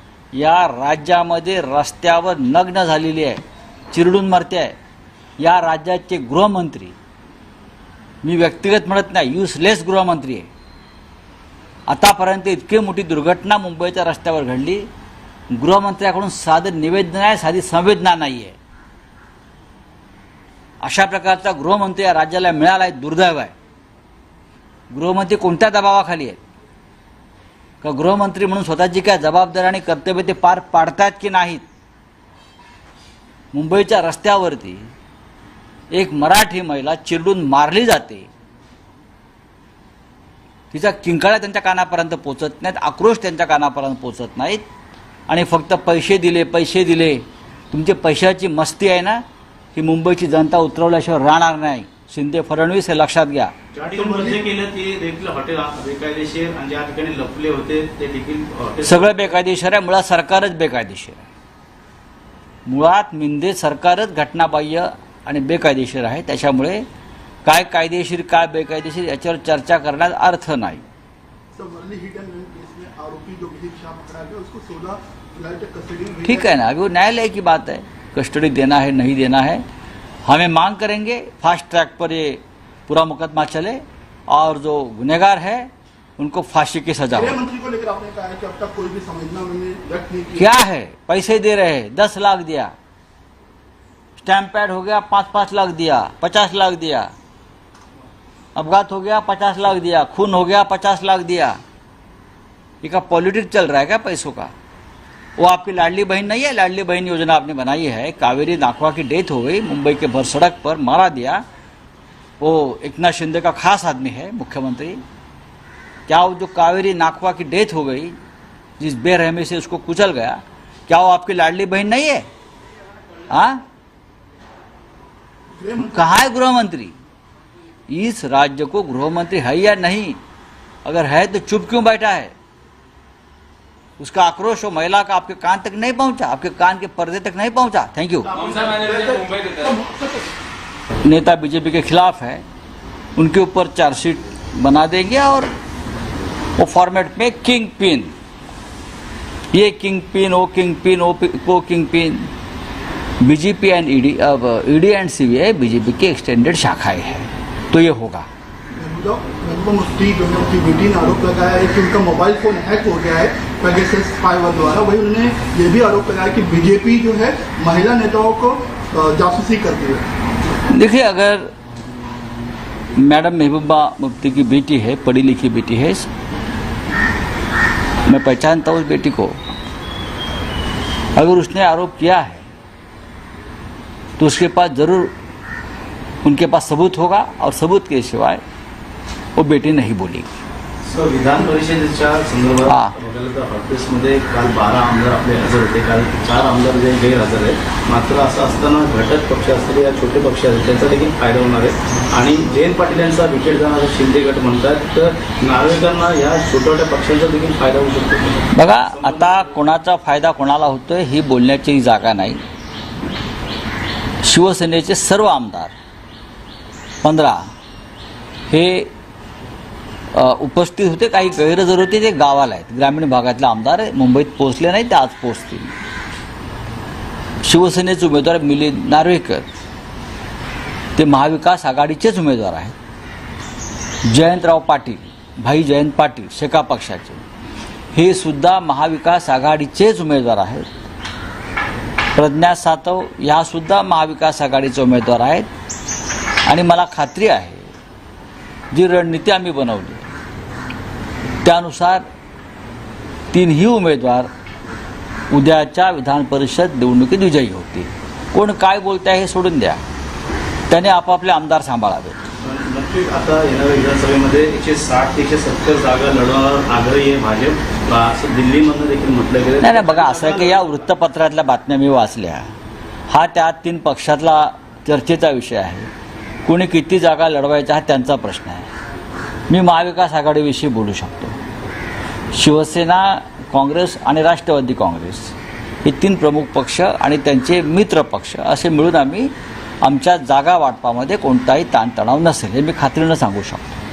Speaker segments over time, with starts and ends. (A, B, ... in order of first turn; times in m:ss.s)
0:00.3-0:04.8 A
0:05.4-0:07.0 A
0:08.2-0:10.5 A
0:11.9-0:14.8 A
0:15.5-0:18.6 A
0:20.8-0:23.5 A
0:24.9-0:26.4 A
0:27.8-0:31.6 A
0:33.5-0:34.9 A
0:35.9-0:38.3 A
0:40.7-0:44.6 A
0:45.3-0:49.2 A
0:49.7-0:53.5 A
0:53.7-0:59.2 B
0:53.9-0:54.4 C
0:58.8-1:01.2 A
1:02.6-1:06.8 A
1:07.4-1:10.8 A
1:11.5-1:16.5 C
1:16.3-1:19.6 A
1:20.2-1:27.4 A
1:27.1-1:30.5 C
1:30.3-1:32.7 A
1:34.2-1:37.1 A
1:38.6-1:41.6 A
1:42.8-1:44.5 A
1:45.4-1:51.4 A
1:52.4-1:55.0 A
1:56.1-1:58.2 A
1:58.8-2:02.3 A
2:03.3-2:03.6 A
2:05.6-2:06.1 C
2:05.8-2:07.0 A
2:07.9-2:10.2 A
2:10.8-2:12.3 A
2:14.0-2:18.3 A
2:18.3-2:20.0 C
2:21.0-2:22.4 A
2:23.2-2:25.5 A
2:26.6-2:28.1 A
2:29.5-2:32.3 A
2:33.2-2:38.3 A
2:38.8-2:50.0 C
2:50.7-2:51.5 A
2:53.0-2:56.1 A
2:58.1-2:59.4 A
3:01.2-3:02.4 A
3:04.2-3:05.1 A
3:06.2-3:08.4 A
3:09.4-3:10.3 A
3:10.8-3:29.5 B
3:12.7-3:12.9 A
3:28.5-3:32.4 A
3:34.2-3:35.7 A
3:37.0-3:37.5 A
3:38.5-3:38.9 A
3:40.1-3:45.8 A
3:47.4-3:49.5 A
3:51.0-3:52.7 A
3:54.0-3:57.2 A
3:57.9-4:00.7 A
4:02.1-4:05.5 A
4:06.4-4:07.7 A
4:08.7-4:10.0 A
4:11.4-4:12.0 A
4:13.3-4:14.3 A
4:15.3-4:19.8 A
4:20.7-4:22.2 A
4:22.4-4:30.9 B
4:29.6-4:32.5 A
4:33.1-4:35.9 A
4:36.4-4:38.7 A
4:39.5-4:41.4 A
4:42.3-4:53.7 A